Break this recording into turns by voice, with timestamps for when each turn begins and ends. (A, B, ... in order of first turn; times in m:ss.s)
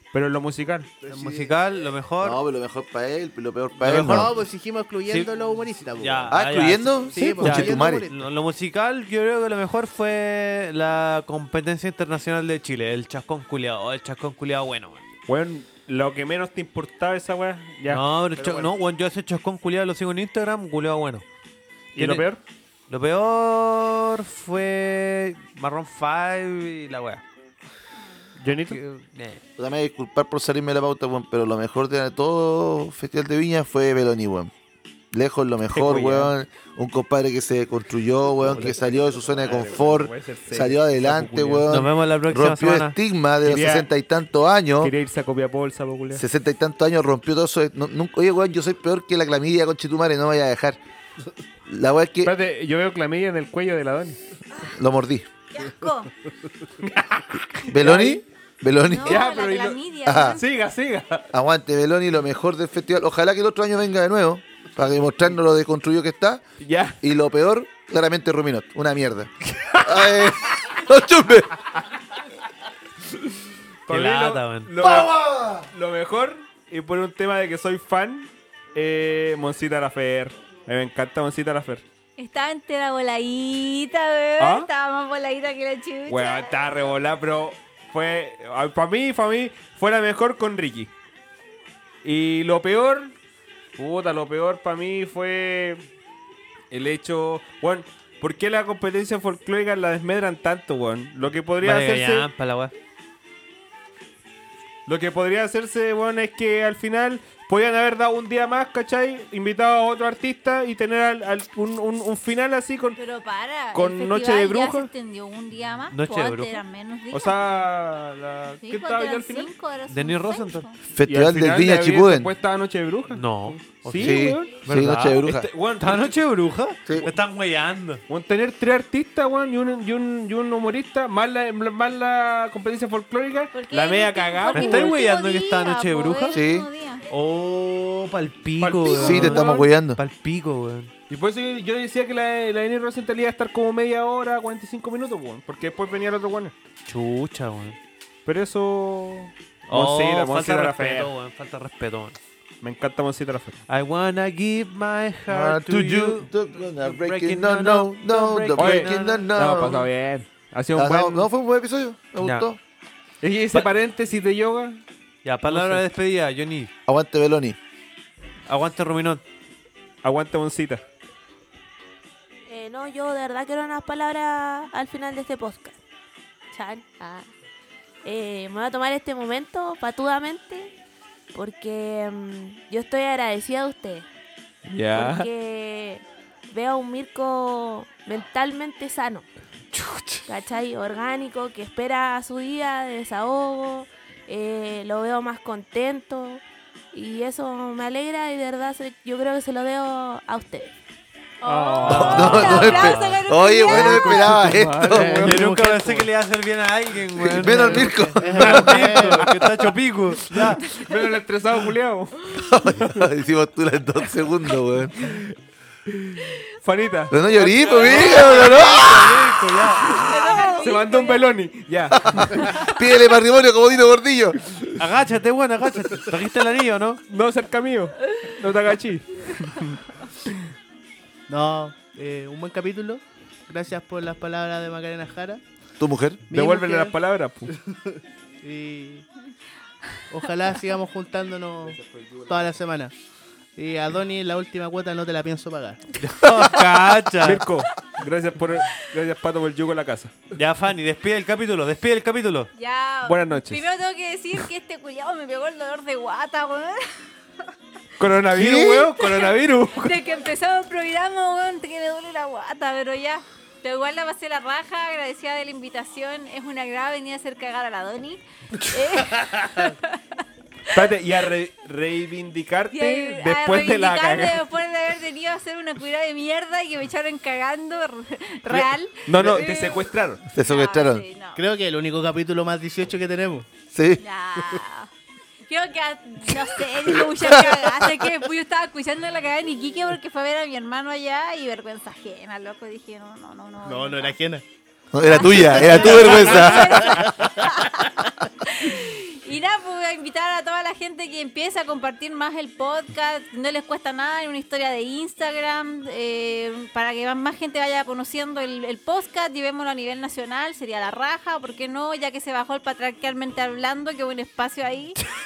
0:00.1-0:01.0 A
0:01.0-0:01.6 B
0:01.1-0:02.4 C
0:02.2-0:04.3 D
0:03.8-0:04.3 C
0:03.9-0:06.4 B
0:06.0-0:15.0 C
0:06.3-0:08.1 D
0:07.1-0:08.2 B
0:15.3-0:18.7 A
0:17.9-0:21.2 C
0:22.0-0:22.4 A
0:22.0-0:22.2 C
0:22.9-0:27.2 C
0:28.4-0:28.8 A
0:28.7-0:29.4 C
0:29.6-0:34.5 D
0:35.1-0:44.9 D
0:35.7-0:36.3 A
0:38.4-0:41.7 A
0:41.7-0:43.0 C
0:43.4-0:43.9 A
0:44.8-0:46.2 A
0:46.2-0:50.8 D
0:51.7-0:52.3 D
0:52.2-0:54.2 A
0:54.7-0:55.3 D
0:55.5-0:56.1 E
0:56.8-0:58.2 A
0:57.7-0:59.3 D
0:58.9-1:00.4 E
0:59.1-1:01.3 A
1:00.1-1:00.4 D
1:01.3-1:06.4 D
1:06.6-1:07.0 A
1:07.0-1:11.6 D
1:09.5-1:10.8 A
1:13.2-1:21.8 A
1:13.9-1:14.7 C
1:14.8-1:15.7 D
1:22.2-1:26.6 E
1:24.4-1:24.7 A
1:26.1-1:30.9 A
1:32.0-1:33.1 A
1:33.8-1:35.8 A
1:36.7-1:42.3 A
1:41.6-1:42.7 C
1:44.9-1:53.0 A
1:53.0-1:57.5 E
1:53.7-1:54.9 A
1:55.9-1:56.6 C
1:57.1-1:59.5 A
1:58.6-2:00.7 E
1:59.9-2:00.7 C
2:00.9-2:02.3 D
2:01.1-2:06.2 A
2:03.1-2:08.0 C
2:04.0-2:05.5 D
2:08.1-2:15.0 A
2:13.5-2:17.1 E
2:14.5-2:16.4 C
2:16.3-2:16.7 D
2:17.1-2:20.9 C
2:18.6-2:19.6 A
2:19.0-2:20.0 D
2:21.1-2:26.5 A
2:26.9-2:27.8 C
2:28.3-2:31.1 A
2:29.7-2:32.2 C
2:32.6-2:33.6 A
2:33.7-2:39.3 C
2:35.3-2:39.9 D
2:38.6-2:41.3 A
2:40.8-2:42.6 D
2:42.2-2:42.5 C
2:43.2-2:44.8 A
2:45.2-2:46.7 C
2:45.5-2:45.8 A
2:46.9-2:47.6 D
2:48.5-2:49.2 C
2:50.0-2:50.8 A
2:52.5-2:55.8 F
2:56.5-2:57.3 F
2:58.0-3:00.7 F
3:01.3-3:04.1 F
3:04.7-3:05.3 A
3:05.0-3:09.3 F
3:09.7-3:10.2 A
3:10.3-3:20.7 F
3:21.4-3:24.3 E
3:21.4-3:22.8 A
3:21.8-3:23.2 C
3:22.0-3:25.4 D
3:23.7-3:26.1 A
3:24.9-3:30.7 C
3:27.2-3:28.9 D
3:27.5-3:29.3 B
3:28.4-3:33.0 A
3:32.3-3:35.2 D
3:35.0-3:35.3 A
3:35.9-3:38.7 A
3:37.1-3:39.4 D
3:37.5-3:40.0 C
3:39.8-3:42.6 A
3:39.8-3:41.3 E
3:41.9-3:44.4 D
3:44.8-3:47.0 C
3:47.1-3:50.5 A
3:51.3-3:55.4 B
3:55.8-3:56.2 D
3:56.3-3:57.0 B
3:56.3-3:57.5 A
3:57.5-3:59.1 B
4:00.1-4:02.9 B
4:03.6-4:06.0 B
4:06.0-4:07.4 C
4:07.2-4:10.2 A
4:10.4-4:12.5 C
4:12.6-4:16.9 E
4:13.1-4:13.7 A
4:18.0-4:19.9 A
4:18.3-4:18.9 D
4:18.4-4:19.1 C
4:19.0-4:30.8 E
4:29.2-4:29.5 A
4:30.7-4:34.4 A
4:32.7-4:39.8 E
4:38.5-4:40.2 A
4:39.2-4:39.5 B
4:40.3-4:41.0 D
4:40.3-4:41.4 E
4:41.4-4:43.5 B
4:43.7-4:44.0 D
4:44.0-4:44.9 E
4:45.5-4:54.2 E
4:47.2-4:47.7 D
4:53.6-4:54.4 B
4:54.9-4:57.1 D
4:55.1-5:15.0 E
4:55.2-4:58.0 B
4:56.0-4:56.4 A